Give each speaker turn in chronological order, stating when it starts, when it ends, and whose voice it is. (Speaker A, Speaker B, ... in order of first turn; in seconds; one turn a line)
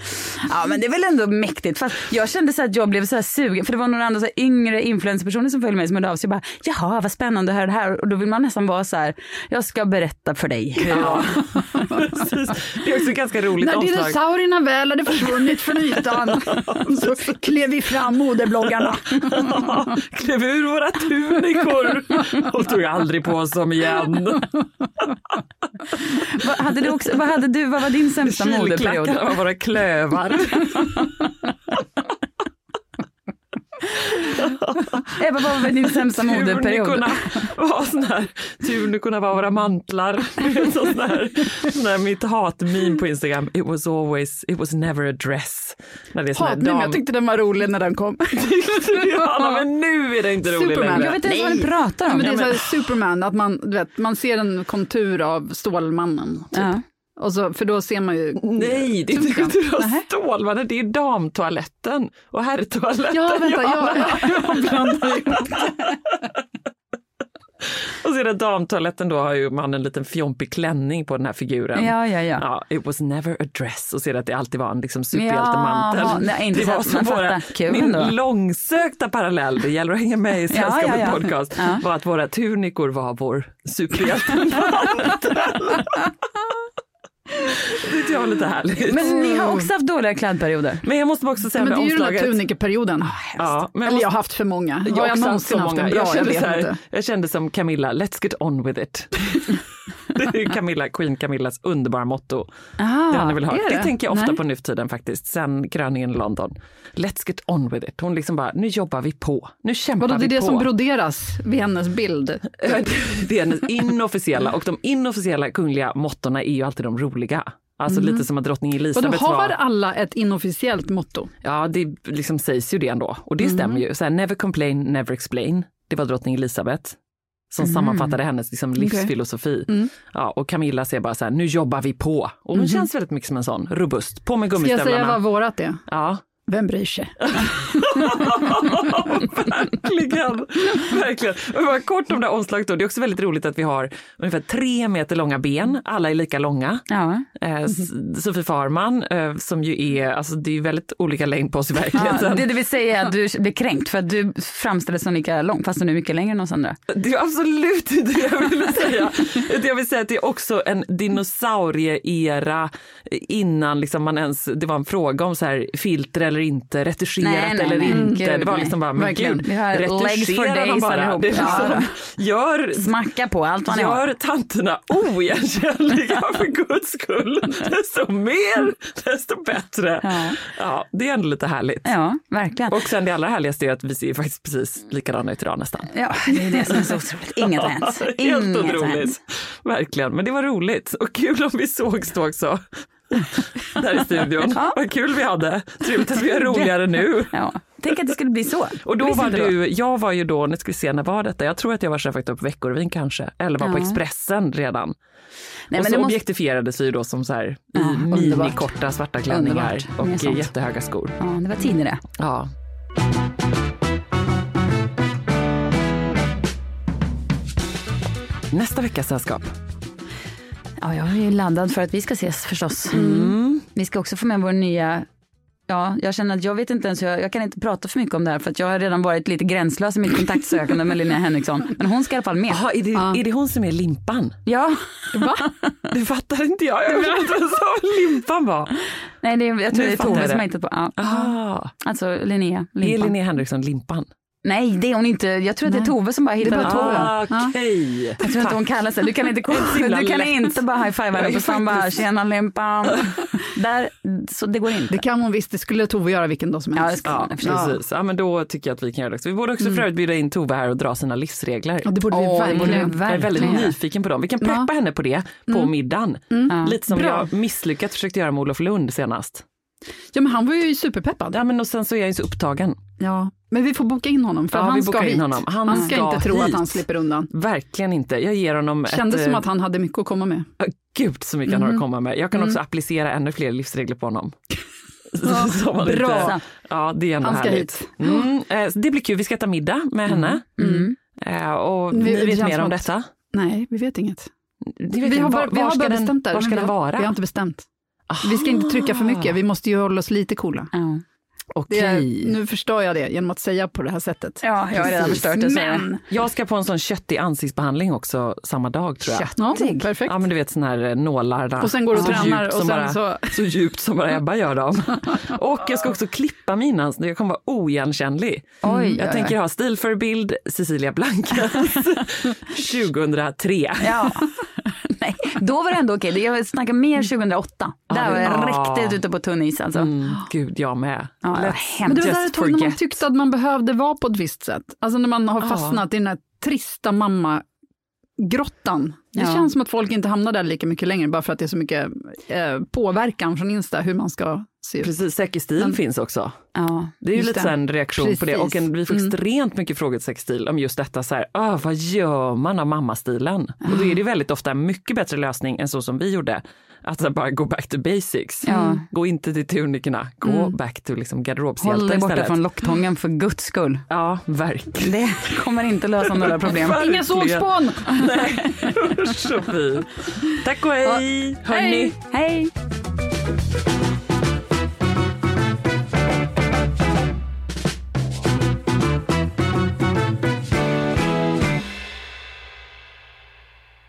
Speaker A: 0.4-11.2
Speaker B: 10.8-14.2
Speaker C: 10.9-11.7
Speaker C: 13.6-19.8
Speaker B: 15.1-17.7
Speaker B: 18.8-24.6
Speaker A: 26.3-29.2
Speaker B: 28.2-31.1
Speaker B: 34.2-47.1
Speaker A: 35.2-37.2
Speaker C: 46.4-49.6
Speaker B: 48.3-51.2
Speaker C: 50.4-60.0
Speaker A: 51.0-52.4
Speaker B: 52.1-52.8
Speaker A: 56.5-56.8
Speaker B: 58.4-65.5
Speaker C: 63.1-65.7
Speaker B: 67.9-86.1
Speaker A: 71.8-72.4
Speaker A: 75.1-78.1
Speaker A: 80.5-81.8
Speaker B: 87.5-89.2
Speaker A: 88.9-90.8
Speaker C: 89.2-89.7
Speaker B: 90.8-92.4
Speaker C: 91.5-96.8
Speaker B: 93.3-94.1
Speaker B: 94.8-99.6
Speaker B: 100.1-102.5
Speaker A: 102.8-103.4
Speaker B: 103.1-110.7
Speaker C: 103.5-104.4
Speaker C: 110.0-112.9
Speaker B: 112.6-119.6
Speaker C: 118.9-121.3
Speaker B: 121.4-127.0
Speaker B: 127.5-135.3
Speaker C: 128.8-129.1
Speaker C: 134.6-135.8
Speaker B: 135.9-136.2
Speaker C: 136.5-137.6
Speaker B: 137.2-152.5
Speaker A: 146.9-147.3
Speaker A: 151.9-156.8
Speaker B: 156.9-172.9
Speaker A: 167.2-168.8
Speaker C: 167.9-169.4
Speaker A: 169.4-171.9
Speaker C: 171.4-171.8
Speaker A: 172.8-174.1
Speaker B: 173.7-181.9
Speaker A: 180.0-180.4
Speaker A: 181.8-182.8
Speaker B: 182.7-197.3
Speaker A: 185.9-189.2
Speaker A: 196.3-199.5
Speaker B: 198.8-204.9
Speaker A: 203.6-204.0
Speaker A: 205.7-206.2
Speaker B: 205.7-211.2
Speaker A: 207.8-208.7
Speaker A: 209.3-210.5
Speaker A: 211.2-212.0
Speaker B: 212.2-212.5
Speaker B: 218.5-219.5
Speaker A: 220.8-223.1
Speaker B: 222.9-223.7
Speaker C: 222.9-223.3
Speaker A: 223.7-225.1
Speaker A: 225.7-232.6
Speaker B: 232.5-234.4
Speaker C: 232.9-233.2
Speaker A: 234.5-235.3
Speaker C: 235.1-235.4
Speaker B: 235.9-238.7
Speaker A: 239.2-241.1
Speaker B: 239.7-240.5
Speaker B: 241.0-241.7
Speaker A: 241.8-243.2
Speaker B: 242.8-244.1
Speaker A: 244.4-247.3
Speaker C: 245.7-247.5
Speaker B: 246.6-248.6
Speaker A: 248.2-255.0
Speaker B: 249.5-250.6
Speaker B: 251.1-252.1
Speaker C: 254.9-257.8
Speaker A: 256.8-257.7
Speaker B: 257.1-269.4
Speaker C: 261.8-263.7
Speaker A: 262.1-263.7
Speaker C: 264.4-264.7
Speaker C: 266.3-267.3
Speaker A: 266.5-266.8
Speaker C: 270.1-271.4
Speaker B: 271.3-272.8
Speaker C: 273.0-277.3
Speaker B: 274.5-279.5
Speaker C: 278.9-280.5
Speaker B: 280.6-284.4
Speaker C: 281.5-281.8
Speaker B: 285.1-290.6
Speaker C: 285.2-286.4
Speaker C: 287.2-288.2
Speaker C: 290.1-290.9
Speaker A: 290.6-290.9
Speaker B: 291.1-293.1
Speaker C: 291.9-292.8
Speaker C: 293.3-294.3
Speaker B: 294.8-297.2
Speaker C: 295.0-297.7
Speaker B: 298.1-299.4
Speaker C: 298.2-300.7
Speaker A: 300.7-301.0
Speaker B: 301.5-302.4
Speaker C: 301.7-306.0
Speaker A: 304.4-305.9
Speaker B: 306.1-309.3
Speaker A: 309.1-309.9
Speaker C: 309.4-310.2
Speaker B: 310.1-324.2
Speaker C: 311.6-313.4
Speaker A: 311.9-312.4
Speaker A: 318.6-319.3
Speaker C: 318.6-319.0
Speaker A: 323.8-329.9
Speaker B: 327.9-329.0
Speaker B: 329.8-333.0
Speaker A: 331.2-332.0
Speaker C: 331.9-337.4
Speaker B: 335.4-335.8
Speaker C: 338.2-345.0
Speaker A: 339.1-339.5
Speaker B: 344.8-346.4
Speaker A: 346.6-346.9
Speaker B: 347.0-362.4
Speaker C: 347.1-349.1
Speaker A: 358.5-358.8
Speaker A: 361.6-363.9
Speaker B: 363.9-365.0
Speaker A: 364.8-366.8
Speaker B: 366.1-371.9
Speaker C: 366.7-368.0
Speaker A: 371.5-372.5